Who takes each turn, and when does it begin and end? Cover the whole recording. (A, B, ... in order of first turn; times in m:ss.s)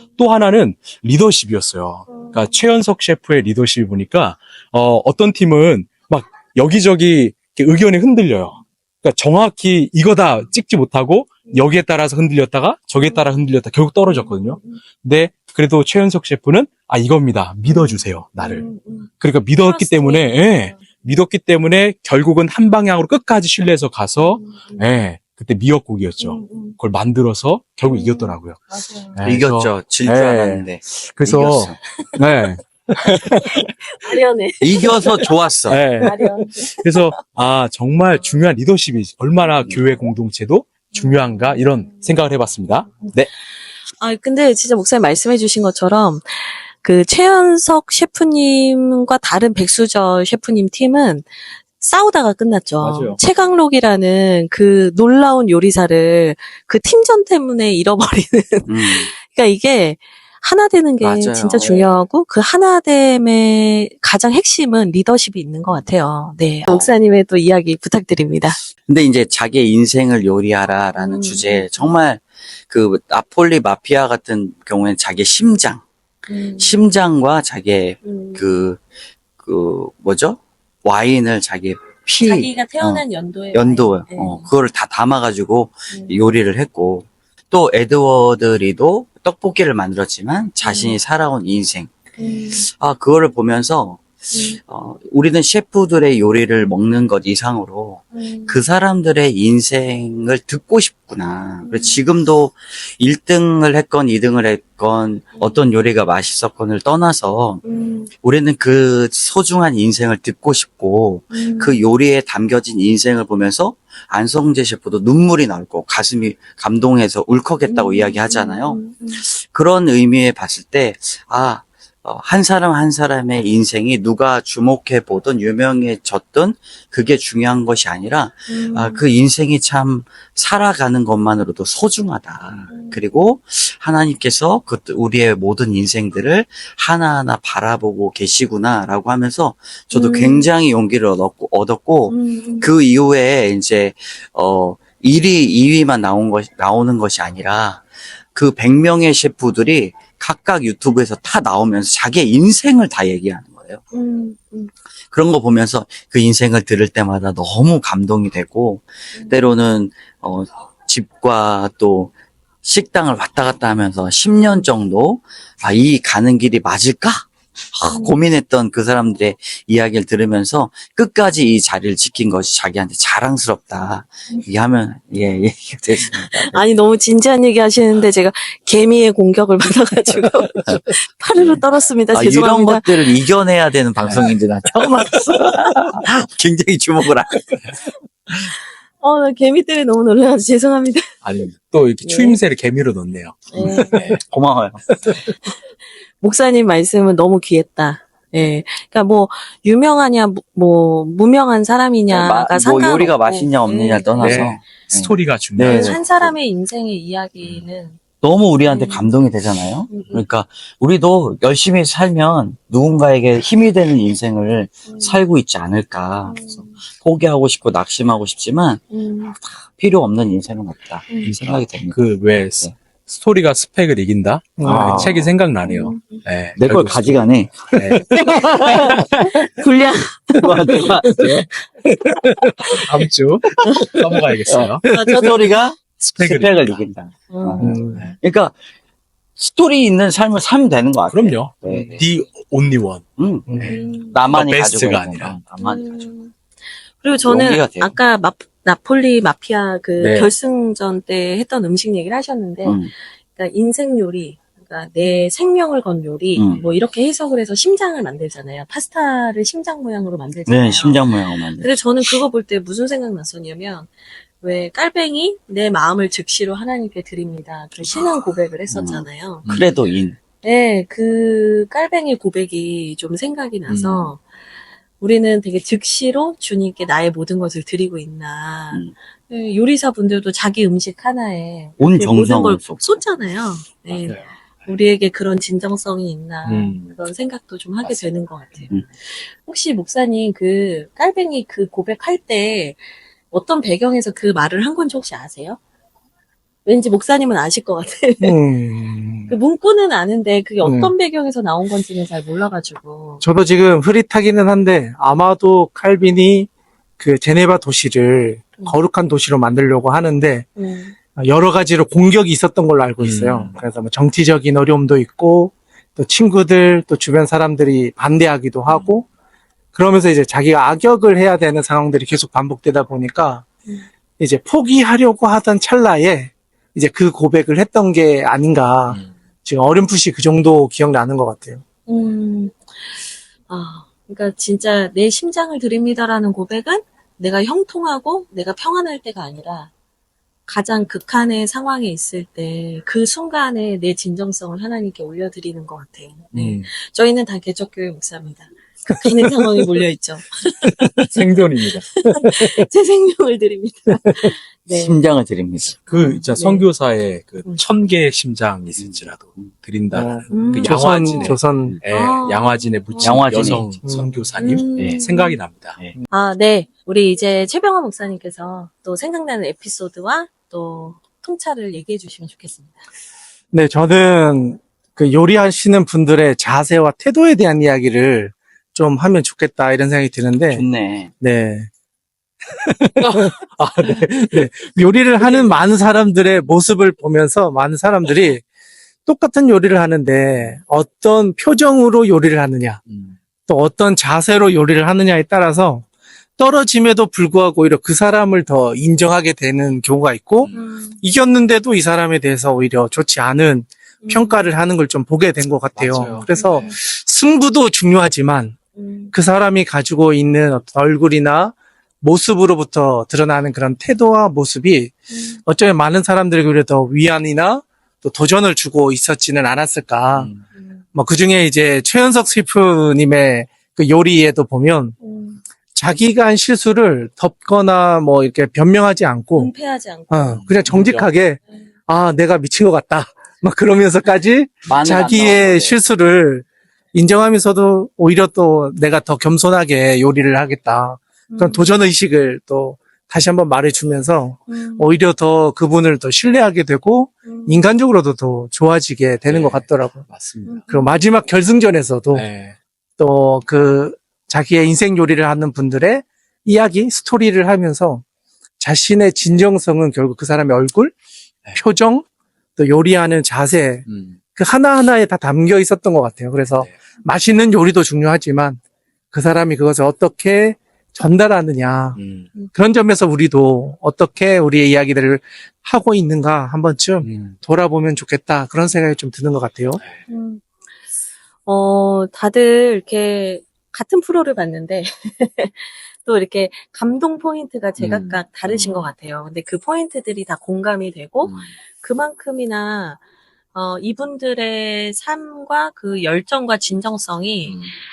0:00.2-0:18.7 A
0:02.1-0:02.5 B
0:13.0-0:13.3 B
0:14.1-0:14.8 B
0:17.7-0:19.1 B
0:19.2-0:33.7 A
0:19.6-0:20.8 B
0:24.4-0:25.0 B
0:26.2-0:26.8 B
0:27.9-0:29.2 B
0:29.2-0:31.8 C
0:33.3-0:35.3 B
0:34.6-0:35.8 C
0:35.7-0:43.3 A
0:36.0-0:37.1 B
0:41.0-0:42.1 B
0:44.0-0:51.3 B
0:51.8-1:08.6 B
0:52.8-0:53.2 A
0:58.7-0:59.1 C
1:01.0-1:01.9 C
1:08.8-1:15.8 C
1:11.0-1:12.0 B
1:16.3-1:16.8 B
1:16.6-1:18.8 C
1:18.0-1:18.4 B
1:19.4-1:31.9 C
1:22.2-1:24.5 B
1:30.6-1:31.0 B
1:32.2-1:32.7 B
1:32.5-2:33.8 C
1:34.3-1:34.6 B
1:38.1-1:38.6 B
1:41.6-1:42.0 B
1:47.6-1:48.1 B
1:51.3-1:51.8 B
1:57.6-1:59.2 B
2:08.5-2:09.0 B
2:12.7-2:13.0 B
2:19.9-2:20.5 B
2:22.1-2:22.7 B
2:33.9-2:34.7 B
2:35.1-2:42.1 C
2:42.6-2:56.6 C
2:47.9-2:48.2 B
2:56.3-3:03.2 B
3:02.1-3:07.5 C
3:04.0-3:04.3 A
3:09.0-3:11.1 B
3:11.2-3:14.2 A
3:12.0-3:12.4 B
3:13.5-3:14.1 B
3:13.6-3:15.2 C
3:16.2-3:24.6 B
3:22.1-3:26.3 C
3:24.2-3:26.0 A
3:25.6-3:28.0 B
3:28.2-3:38.9 C
3:28.7-3:29.1 B
3:29.9-3:30.2 B
3:34.9-3:35.2 B
3:36.3-3:36.7 B
3:38.9-3:39.3 B
3:39.4-3:42.0 C
3:41.2-3:48.8 A
3:44.6-3:45.1 D
3:44.6-3:45.3 C
3:45.6-3:46.2 B
3:46.6-3:49.1 C
3:48.3-3:50.9 B
3:50.4-3:51.4 C
3:51.1-3:51.5 A
3:52.2-3:52.7 D
3:52.6-3:54.9 A
3:54.5-3:58.6 C
3:54.9-3:55.6 B
3:56.0-3:56.8 A
3:57.3-3:57.8 B
3:57.6-3:58.0 D
3:57.6-3:58.1 A
3:59.4-4:02.0 C
4:01.1-4:05.4 A
4:03.2-4:06.1 C
4:03.6-4:04.2 B
4:05.6-4:06.3 B
4:07.0-4:12.8 B
4:07.2-4:08.0 C
4:10.0-4:10.3 A
4:12.6-4:12.9 C
4:13.4-4:29.5 B
4:16.4-4:16.6 C
4:20.5-4:22.1 C
4:28.7-4:30.2 C
4:30.4-4:34.2 B
4:33.7-4:34.1 A
4:35.0-4:55.6 B
4:41.8-4:43.0 C
4:43.9-4:44.3 A
4:46.4-4:47.0 A
4:56.7-4:58.4 B
4:58.2-4:59.3 D
4:59.3-5:03.2 B
5:00.6-5:00.9 D
5:03.2-5:10.5 D
5:10.6-5:10.9 B
5:11.2-5:19.1 D
5:13.0-5:13.6 A
5:19.7-5:23.4 D
5:24.2-5:31.6 D
5:31.9-5:32.6 B
5:33.5-5:39.7 B
5:40.5-5:55.0 B
5:46.3-5:46.7 A
5:51.0-5:51.9 A
5:54.7-5:55.8 C
5:55.9-5:56.7 B
5:55.9-6:05.8 A
5:58.8-5:59.5 C
5:59.9-6:01.8 D
6:00.3-6:01.3 B
6:01.9-6:03.6 B
6:03.0-6:03.8 C
6:03.8-6:04.3 D
6:04.4-6:05.4 B
6:04.8-6:05.0 C
6:06.1-6:12.8 B
6:13.5-6:20.7 D
6:20.5-6:21.1 C
6:21.2-6:21.7 D
6:22.5-6:28.4 D
6:23.0-6:24.6 A
6:29.1-6:32.8 D
6:32.9-6:33.2 A
6:33.5-6:35.9 D
6:36.4-6:48.6 D
6:40.5-6:41.0 B
6:44.0-6:44.5 B
6:45.8-6:46.3 A
6:46.3-6:46.8 B
6:48.8-6:49.1 B
6:49.1-7:00.3 D
6:55.1-6:55.4 B
7:00.2-7:00.4 A
7:00.6-7:00.8 B
7:01.0-7:05.0 D
7:05.0-7:05.4 B
7:05.8-7:09.5 D
7:09.4-7:10.4 B
7:10.1-7:30.0 D
7:10.4-7:11.1 A
7:14.7-7:15.8 C
7:21.3-7:21.7 B
7:24.5-7:24.9 B
7:27.2-7:27.6 B
7:29.3-7:30.6 A
7:30.4-7:31.0 B
7:30.7-7:32.3 D
7:32.1-7:32.6 A
7:33.0-7:38.0 D
7:38.6-7:40.9 D
7:41.6-7:42.0 D
7:42.6-7:48.6 D
7:43.9-7:44.2 A
7:49.1-7:52.0 D
7:52.0-7:52.3 A
7:52.5-7:59.8 D
7:57.0-7:57.4 A
8:00.1-8:00.4 B
8:01.5-8:13.0 B
8:07.8-8:08.9 A
8:11.2-8:11.5 A
8:13.5-8:17.6 B
8:17.5-8:17.7 A